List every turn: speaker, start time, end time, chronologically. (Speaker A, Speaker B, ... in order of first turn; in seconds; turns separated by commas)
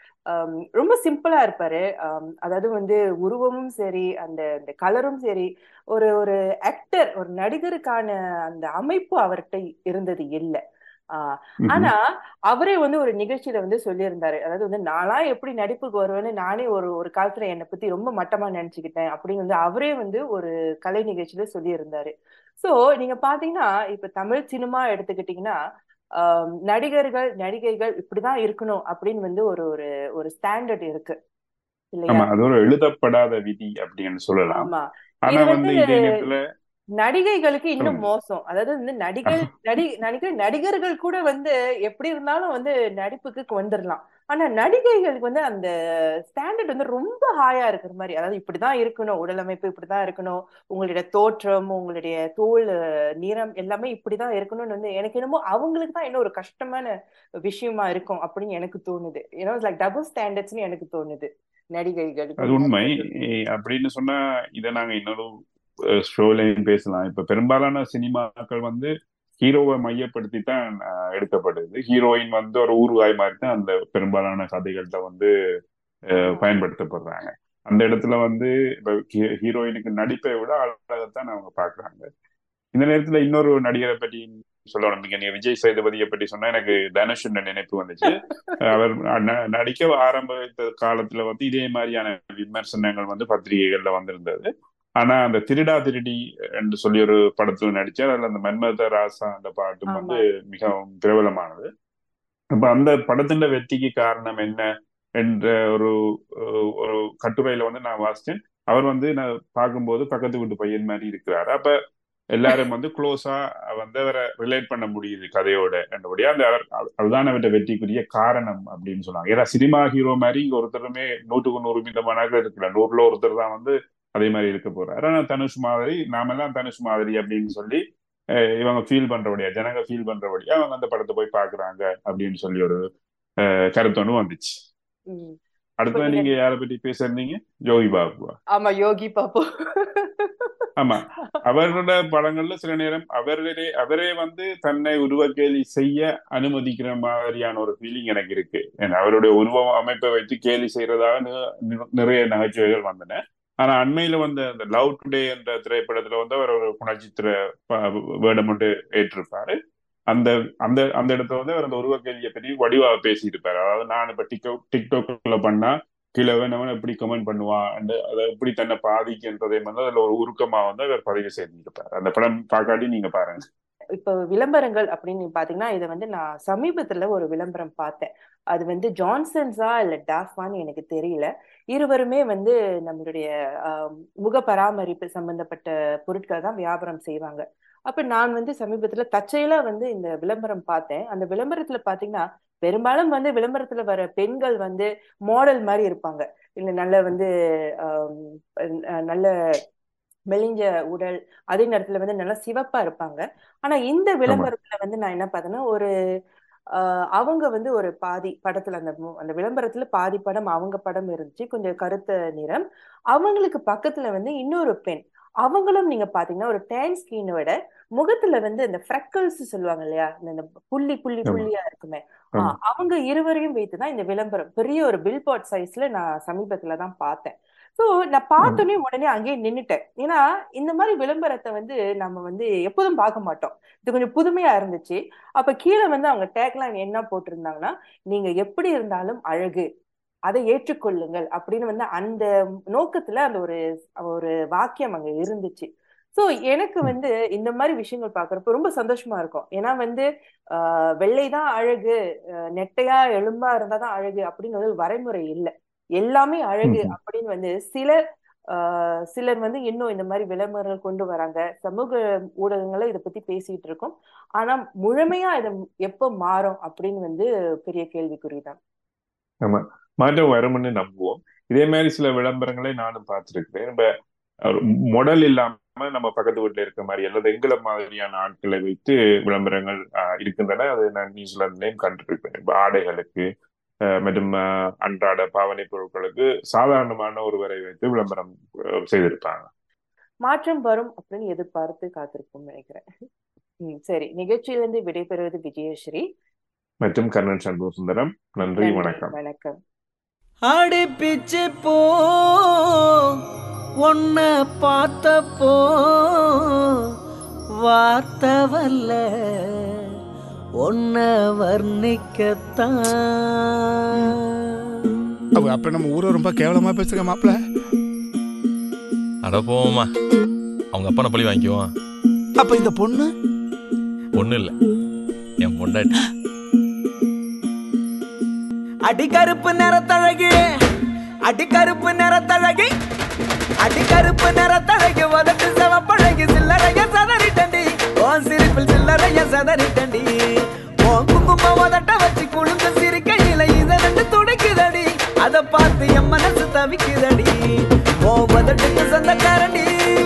Speaker A: 0.3-10.6, Speaker A: 11.1-25.6, Speaker B: 11.6-11.9, Speaker A: 26.2-31.1, Speaker A: 31.9-32.3, Speaker B: 32.1-34.7, Speaker A: 34.5-36.2, Speaker B: 35.2-36.4, Speaker A: 37.0-45.7, Speaker A: 46.3-56.9, Speaker A: 57.5-63.0, Speaker B: 62.4-65.3, Speaker B: 65.9-75.3, Speaker B: 76.1-82.1, Speaker A: 76.2-76.5, Speaker B: 82.7-101.7, Speaker A: 88.1-88.6, Speaker A: 99.9-100.2, Speaker B: 102.5-104.7, Speaker B: 105.2-111.7, Speaker B: 112.3-127.8, Speaker B: 128.6-132.8, Speaker B: 133.4-134.5, Speaker A: 135.1-135.3, Speaker B: 135.8-138.3, Speaker A: 135.9-136.3, Speaker A: 138.5-140.7, Speaker B: 140.8-159.6, Speaker B: 160.1-173.4, Speaker A: 174.0-197.3, Speaker A: 197.8-198.4, Speaker A: 200.3-205.9, Speaker A: 206.7-239.7, Speaker A: 240.3-251.9, Speaker A: 252.6-257.9, Speaker B: 256.6-256.9, Speaker A: 258.5-268.6, Speaker B: 269.4-273.9, Speaker B: 274.4-283.2, Speaker B: 284.0-288.4, Speaker B: 288.9-289.5, Speaker A: 290.2-292.8, Speaker A: 293.6-296.0, Speaker B: 296.8-299.1, Speaker A: 298.6-299.6, Speaker C: 300.5-303.2, Speaker C: 303.8-306.7, Speaker C: 307.6-309.0, Speaker C: 310.6-314.2, Speaker D: 315.4-317.4, Speaker E: 319.2-319.9, Speaker E: 320.7-321.7, Speaker D: 322.4-323.1, Speaker E: 324.1-324.5, Speaker E: 325.4-325.9, Speaker C: 328.9-330.3, Speaker C: 331.3-332.7, Speaker C: 333.6-340.1, Speaker C: 340.8-347.4, Speaker C: 348.0-349.7